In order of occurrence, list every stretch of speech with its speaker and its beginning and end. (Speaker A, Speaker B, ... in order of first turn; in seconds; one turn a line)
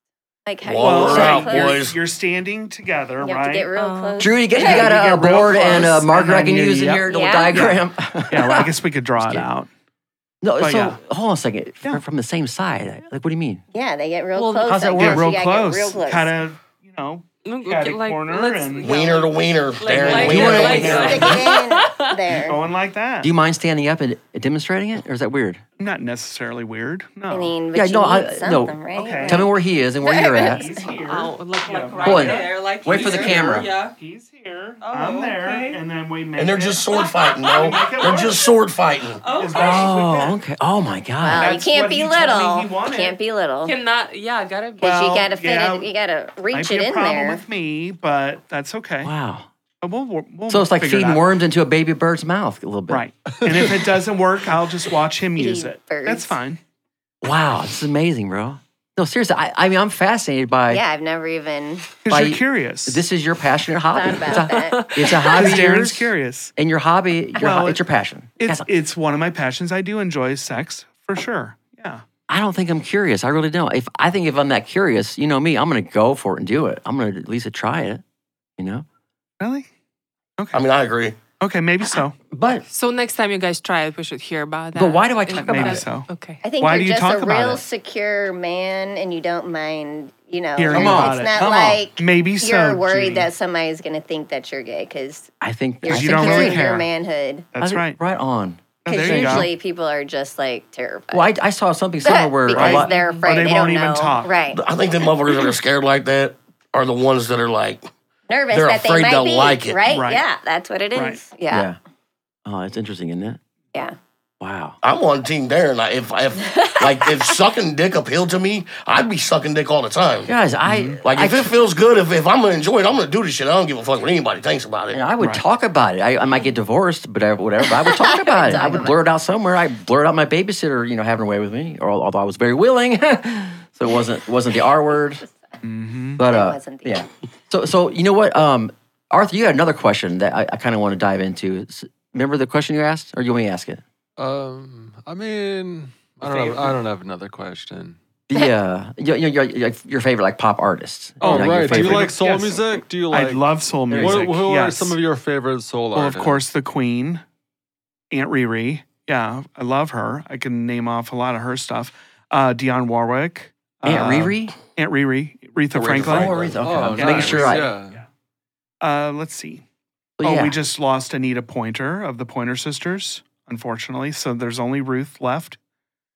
Speaker A: 0.5-1.8
Speaker B: 0.6-1.9
Speaker C: 0.8-3.7
Speaker A: 3.2-4.9
Speaker D: 3.7-4.3
Speaker E: 4.2-9.4
Speaker C: 4.5-9.7
Speaker A: 5.5-5.8
Speaker A: 7.1-7.7
Speaker E: 10.4-13.6
Speaker C: 10.6-11.0
Speaker A: 13.7-16.3
Speaker D: 14.3-14.8
Speaker E: 14.7-15.2
Speaker C: 14.9-18.9
Speaker D: 17.4-22.1
Speaker B: 18.8-21.4
Speaker C: 19.9-21.4
Speaker E: 20.1-21.0
Speaker A: 20.8-22.6
Speaker C: 22.4-23.3
Speaker E: 23.2-25.6
Speaker C: 25.8-27.5
Speaker A: 27.3-30.9
Speaker E: 27.7-30.6
Speaker C: 28.9-29.4
Speaker C: 30.4-32.5
Speaker D: 31.1-33.9
Speaker E: 32.0-33.7
Speaker C: 33.0-36.9
Speaker D: 34.8-35.8
Speaker B: 36.4-39.2
Speaker D: 36.9-38.5
Speaker C: 37.5-38.4
Speaker D: 39.1-40.3
Speaker C: 39.3-40.3
Speaker E: 39.5-41.5
Speaker A: 41.2-43.7
Speaker C: 41.4-43.1
Speaker D: 43.6-44.8
Speaker A: 44.8-47.4
Speaker C: 44.8-45.9
Speaker C: 46.5-49.1
Speaker E: 49.0-49.5
Speaker C: 49.8-51.2
Speaker E: 50.5-53.0
Speaker C: 52.9-56.6
Speaker A: 55.4-56.4
Speaker E: 57.2-60.8
Speaker A: 60.7-61.9
Speaker C: 62.0-63.0
Speaker E: 62.1-68.7
Speaker A: 63.9-64.9
Speaker D: 64.3-65.5
Speaker C: 65.3-66.5
Speaker C: 67.4-67.8
Speaker C: 68.4-72.0
Speaker E: 72.3-78.0
Speaker E: 78.6-78.8
Speaker C: 79.4-79.7
Speaker B: 80.5-81.2
Speaker C: 81.4-82.1
Speaker E: 82.3-82.6
Speaker D: 82.7-86.4
Speaker E: 84.7-85.8
Speaker C: 85.4-86.1
Speaker A: 86.4-97.5
Speaker C: 86.6-87.6
Speaker C: 90.5-93.3
Speaker E: 90.7-91.8
Speaker E: 95.4-96.7
Speaker C: 95.9-96.9
Speaker C: 97.5-98.0
Speaker E: 97.6-99.5
Speaker C: 98.8-99.5
Speaker A: 98.9-101.3
Speaker E: 101.1-102.9
Speaker A: 102.0-104.6
Speaker C: 102.5-104.3
Speaker D: 102.9-103.4
Speaker B: 104.5-107.8
Speaker A: 108.3-111.7
Speaker B: 108.5-109.8
Speaker C: 109.9-110.2
Speaker C: 110.9-111.2
Speaker E: 111.5-111.8
Speaker E: 112.4-113.4
Speaker E: 114.4-114.8
Speaker B: 114.8-120.3
Speaker A: 116.5-117.2
Speaker E: 120.2-121.5
Speaker C: 120.6-121.0
Speaker B: 121.0-125.0
Speaker E: 124.9-135.2
Speaker A: 127.6-129.0
Speaker C: 135.6-136.2
Speaker E: 136.2-143.8
Speaker A: 136.2-137.0
Speaker F: 144.2-148.0
Speaker C: 146.2-146.7
Speaker E: 148.3-152.2
Speaker C: 151.2-154.9
Speaker F: 151.2-156.4
Speaker E: 153.9-154.3
Speaker C: 155.9-157.2
Speaker C: 158.1-166.3
Speaker E: 163.8-164.5
Speaker B: 165.7-167.3
Speaker E: 165.9-167.7
Speaker F: 166.6-168.0
Speaker C: 167.0-167.6
Speaker C: 168.8-169.6
Speaker E: 170.2-170.6
Speaker C: 170.2-175.6